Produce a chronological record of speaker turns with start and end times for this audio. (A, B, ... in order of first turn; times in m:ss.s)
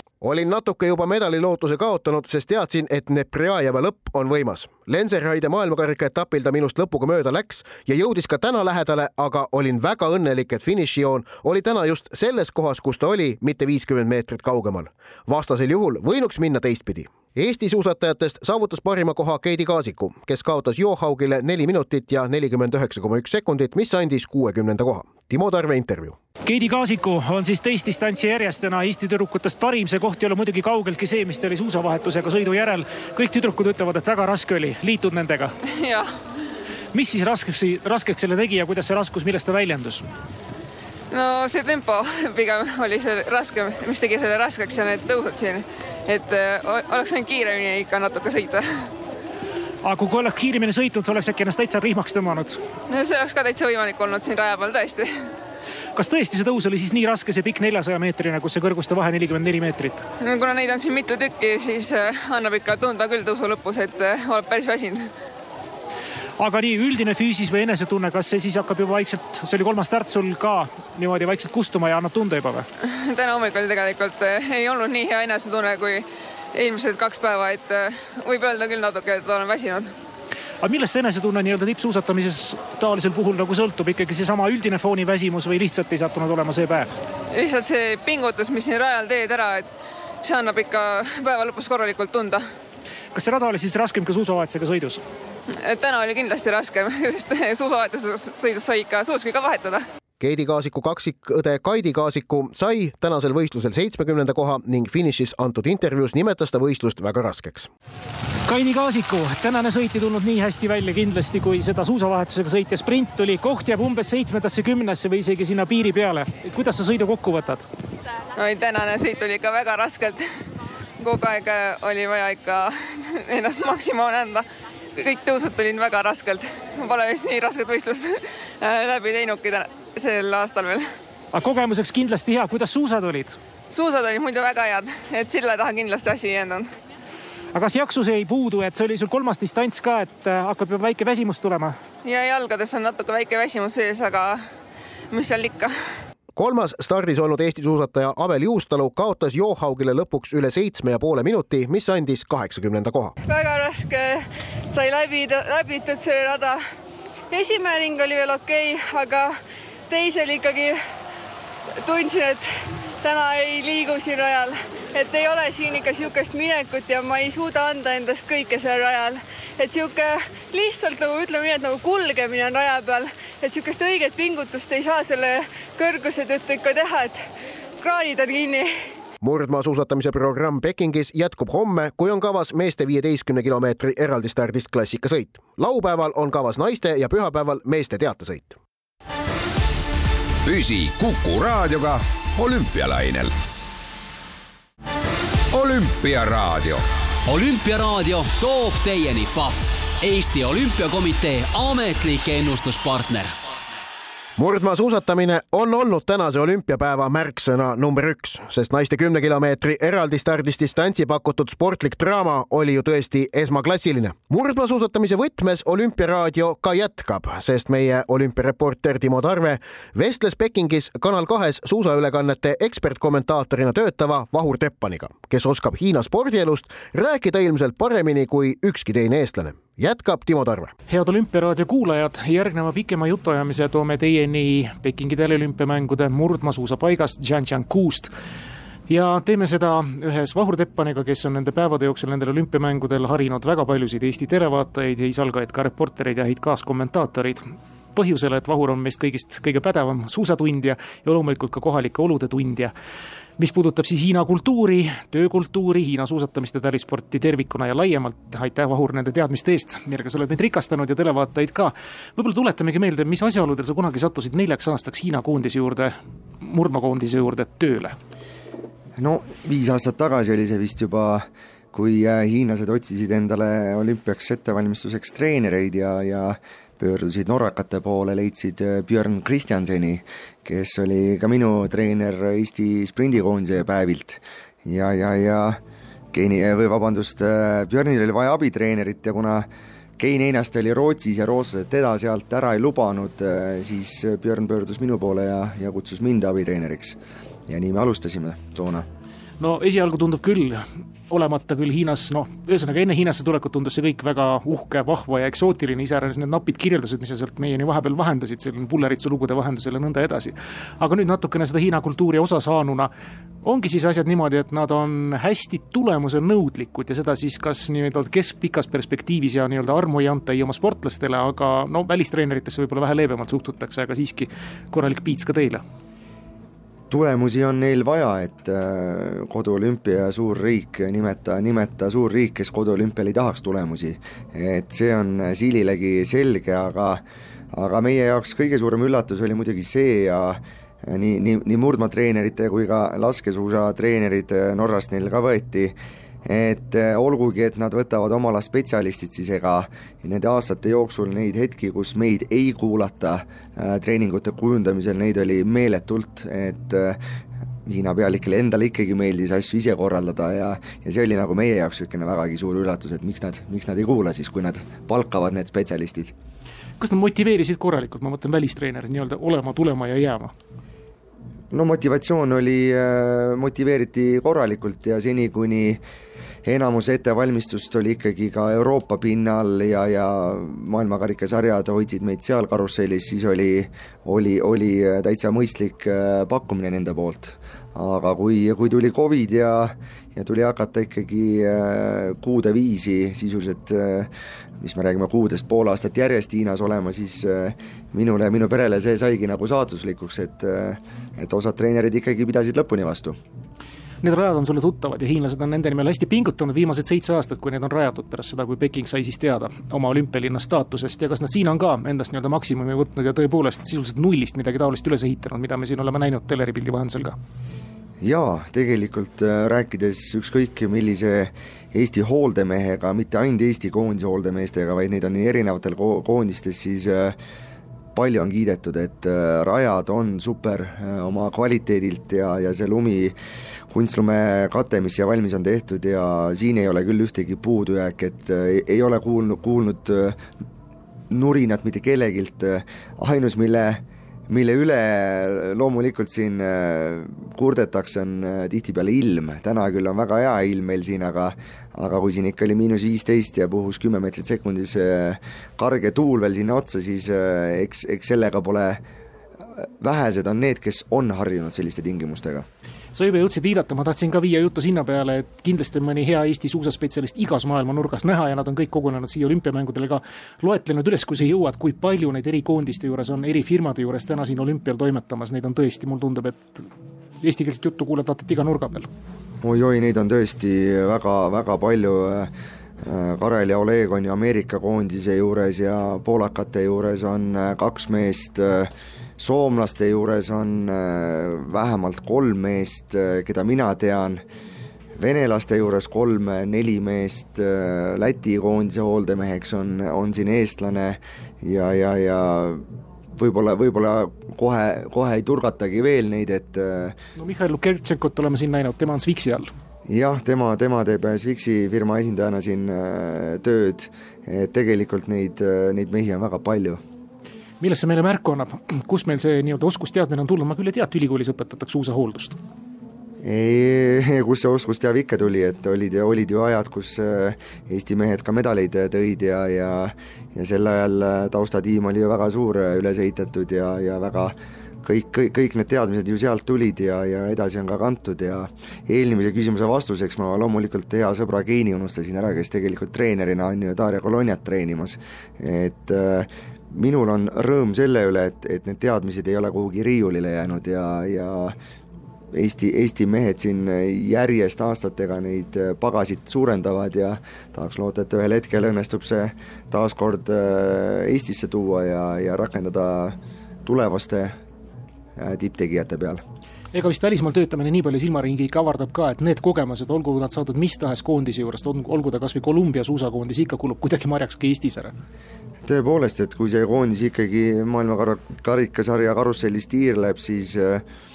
0:00.2-0:26.2 A
0:26.4-0:35.5 B
0:35.7-0:36.1 C
0:36.9-0:40.0 B
0:41.1-0:48.8 C
0:49.8-0:52.6 B
0:52.9-0:55.1 C
0:56.0-1:00.0 B
1:00.2-1:05.1 C
1:06.4-1:12.7 B
1:12.8-1:19.9 C
1:20.6-1:26.9 B
1:27.3-1:29.6 C
1:30.2-1:32.4 C
1:33.1-1:35.0 B
1:35.5-1:39.8 C
1:40.2-1:47.7 A
1:48.5-1:57.7 B
1:58.4-2:00.2 C
2:01.0-2:10.9 C
2:11.3-2:13.4 B
2:13.7-2:16.7 C
2:17.5-2:21.8 B
2:22.0-2:24.4 C
2:25.1-2:25.7 C
2:26.3-2:33.1 A
2:33.3-2:36.6 D
2:37.3-2:39.3 D
2:39.9-2:40.8 D
2:41.8-2:42.5 D
2:43.0-2:57.2 D
2:57.8-2:58.7 D
2:59.2-3:08.6 A
3:10.4-3:13.3 E
3:15.5-3:16.8 E
3:17.3-3:23.3 F
3:24.4-3:50.7 A
3:50.9-3:58.1 B
3:58.9-4:12.7 B
4:13.4-4:28.0 B
4:29.0-4:45.6 G
4:46.1-4:49.5 G
4:50.0-4:58.8 G
4:59.4-5:12.9 B
5:13.4-5:25.6 B
5:26.9-5:37.0 G
5:37.5-5:45.7 G
5:46.2-5:57.0 G
5:57.7-6:06.1 G
6:06.8-6:10.3 B
6:11.5-6:15.8 G
6:16.4-6:34.1 G
6:34.6-6:43.2 G
6:44.0-6:57.2 B
6:58.0-7:07.2 G
7:07.9-7:13.1 G
7:13.7-7:20.2 G
7:21.1-7:38.8 G
7:39.8-7:42.4 G
7:42.9-7:56.7 B
7:57.2-7:58.9 B
7:59.4-8:02.3 G
8:02.8-8:14.2 G
8:15.0-8:22.6 G
8:23.2-8:27.0 G
8:27.2-8:29.5 B
8:29.9-8:36.8 G
8:37.6-8:42.4 B
8:43.2-9:11.6 G
9:12.3-9:24.4 G
9:25.2-9:26.2 G
9:26.7-9:34.9 B
9:35.6-9:40.8 G